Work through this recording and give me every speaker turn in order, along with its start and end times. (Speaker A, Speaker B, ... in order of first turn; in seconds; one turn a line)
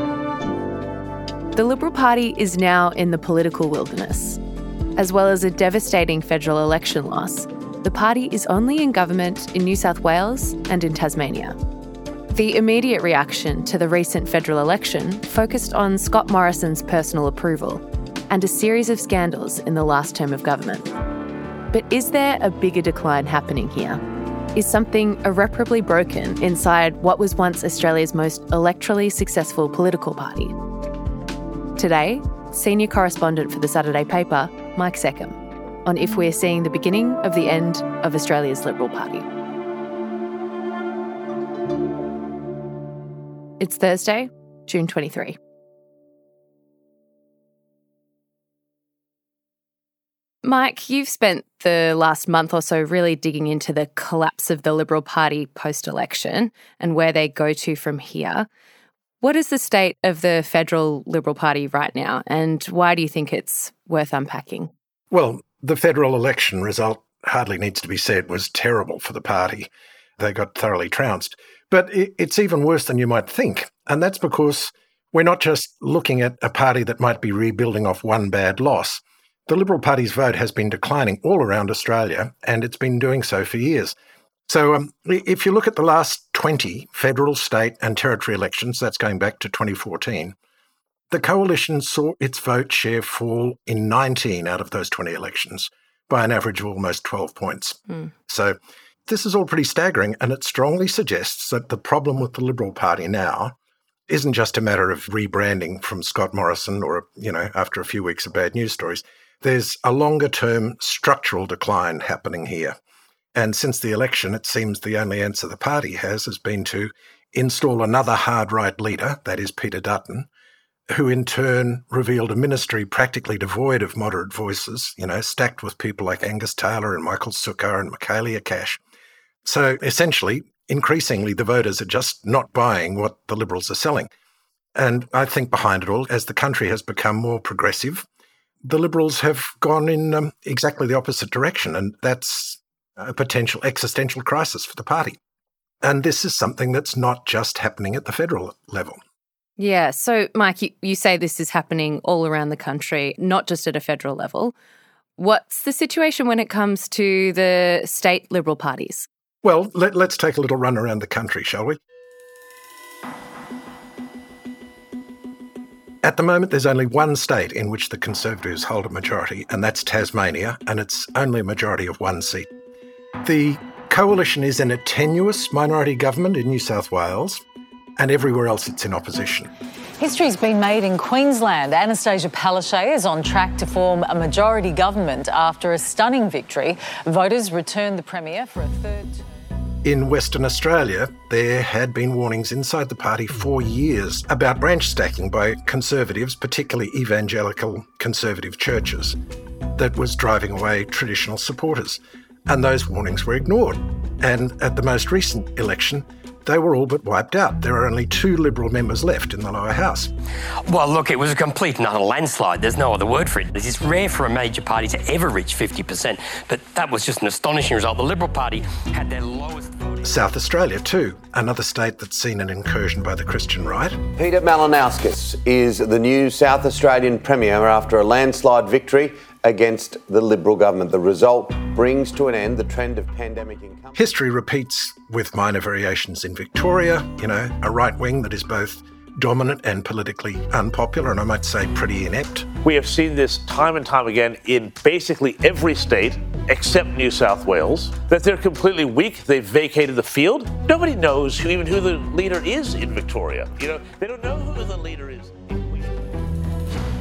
Speaker A: 1.6-4.4
Speaker A: 5.0-11.6
Speaker A: 12.3-20.9
Speaker A: 21.7-24.0
Speaker A: 24.6-30.6
Speaker A: 31.8-39.3
Speaker A: 43.6-45.4
Speaker A: 50.4-58.5
Speaker A: 59.2-64.7
Speaker B: 65.1-84.0
Speaker B: 84.5-90.3
Speaker B: 91.1-103.5
Speaker B: 104.1-112.8
Speaker B: 113.3-120.3
Speaker B: 120.9-128.8
Speaker B: 129.4-134.1
Speaker B: 134.8-138.1
Speaker B: 138.6-145.2
Speaker B: 145.8-149.0
Speaker A: 149.6-154.5
Speaker A: 155.2-159.1
Speaker B: 159.4-161.8
Speaker B: 166.0-172.5
Speaker B: 173.2-177.4
Speaker B: 178.0-179.5
Speaker C: 180.0-189.2
Speaker B: 189.8-199.2
Speaker B: 199.8-210.1
Speaker D: 210.7-220.1
Speaker B: 220.0-224.0
Speaker E: 224.1-234.0
Speaker B: 233.9-242.5
Speaker F: 242.6-255.9